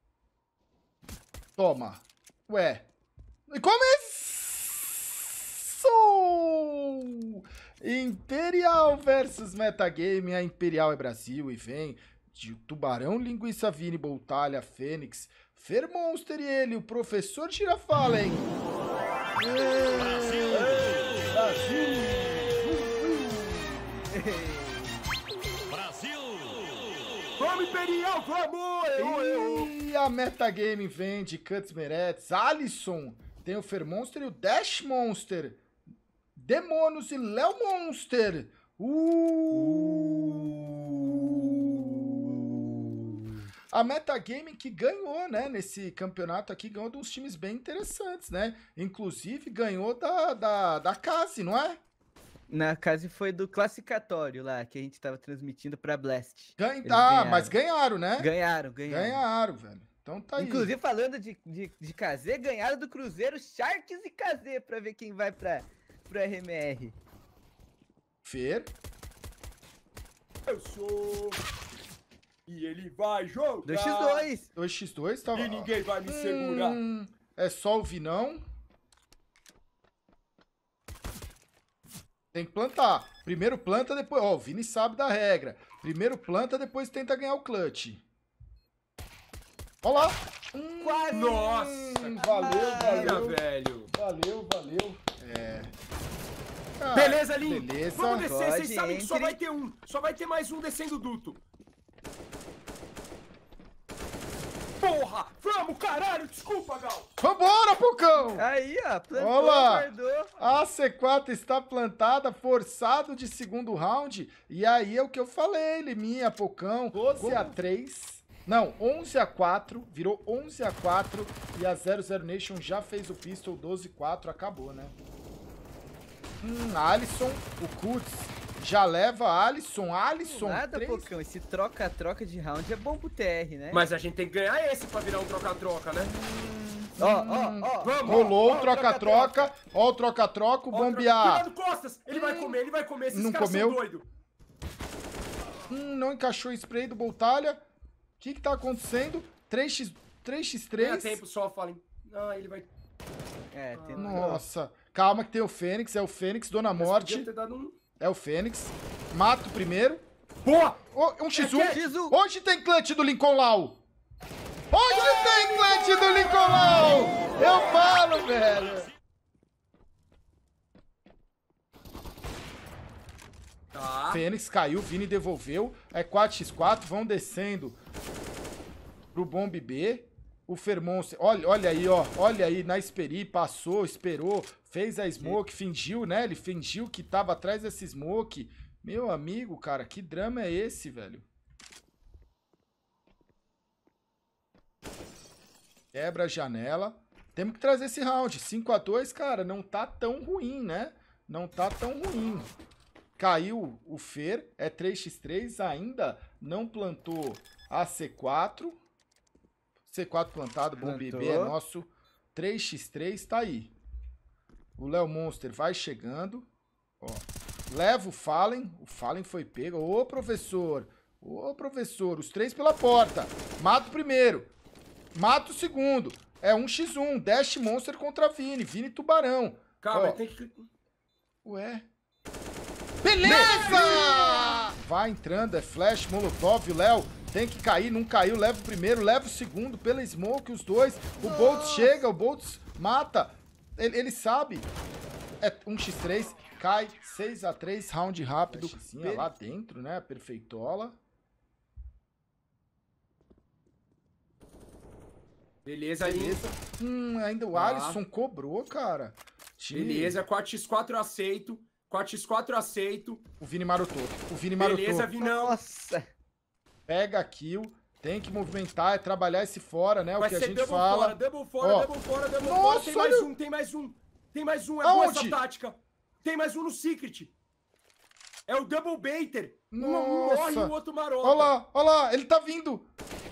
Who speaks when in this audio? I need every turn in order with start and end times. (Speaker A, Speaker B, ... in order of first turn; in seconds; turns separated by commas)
Speaker A: 1.6-2.9, Speaker A: 3.5-18.6, Speaker A: 19.4-24.1, Speaker B: 20.5-20.9, Speaker B: 24.1-25.1, Speaker C: 27.4-29.7, Speaker A: 29.0-35.6, Speaker A: 36.4-42.4, Speaker B: 39.6-43.1, Speaker A: 43.7-51.8, Speaker B: 52.5-57.6, Speaker A: 56.6-58.3, Speaker B: 58.2-59.2, Speaker A: 58.9-60.7, Speaker B: 60.4-67.0, Speaker A: 68.2-68.7, Speaker C: 70.5-71.4, Speaker C: 72.5-74.3, Speaker B: 73.7-74.5, Speaker A: 74.5-78.4, Speaker C: 75.3-76.8, Speaker A: 82.3-88.0, Speaker A: 89.8-93.4, Speaker B: 90.8-91.6, Speaker C: 91.1-93.9, Speaker B: 92.2-93.3, Speaker A: 93.9-95.7, Speaker A: 96.8-98.3, Speaker C: 96.9-101.4, Speaker B: 98.2-99.4, Speaker C: 104.8-107.1, Speaker A: 107.2-108.5, Speaker B: 108.3-110.3, Speaker A: 109.2-125.0, Speaker C: 116.9-117.5, Speaker A: 126.4-131.1, Speaker B: 130.3-133.8, Speaker C: 133.7-136.1, Speaker B: 136.0-139.5, Speaker A: 137.0-141.5, Speaker C: 137.8-138.6, Speaker C: 140.7-144.1, Speaker A: 142.1-142.6, Speaker A: 143.1-143.8, Speaker A: 145.7-147.6, Speaker A: 148.2-151.2, Speaker C: 150.8-152.7, Speaker B: 153.5-154.4, Speaker C: 153.8-154.3, Speaker A: 154.0-157.3, Speaker C: 156.8-157.8, Speaker A: 158.0-160.0, Speaker C: 160.4-160.8, Speaker A: 160.9-163.8, Speaker C: 161.4-161.8, Speaker B: 161.6-162.2, Speaker A: 164.7-168.9, Speaker B: 164.9-168.0, Speaker C: 173.7-174.2, Speaker A: 174.1-177.8, Speaker A: 179.1-191.3, Speaker A: 195.9-202.5, Speaker A: 203.2-208.8, Speaker A: 209.9-213.7, Speaker B: 210.8-211.6, Speaker A: 214.8-216.5, Speaker A: 217.0-224.5, Speaker A: 225.1-230.2, Speaker C: 229.8-230.7, Speaker A: 231.4-231.9, Speaker A: 233.0-244.7, Speaker C: 233.2-234.5, Speaker B: 234.0-234.6, Speaker B: 241.2-242.0, Speaker A: 245.4-251.0, Speaker C: 248.5-249.3, Speaker C: 255.7-256.4, Speaker A: 256.0-260.2, Speaker C: 257.5-258.0, Speaker C: 259.7-263.2, Speaker A: 263.4-265.1, Speaker C: 264.6-265.6, Speaker B: 265.2-266.1, Speaker A: 266.9-271.9, Speaker C: 270.2-277.3, Speaker A: 272.4-273.3, Speaker A: 274.8-275.4, Speaker C: 278.5-281.5, Speaker A: 279.7-282.9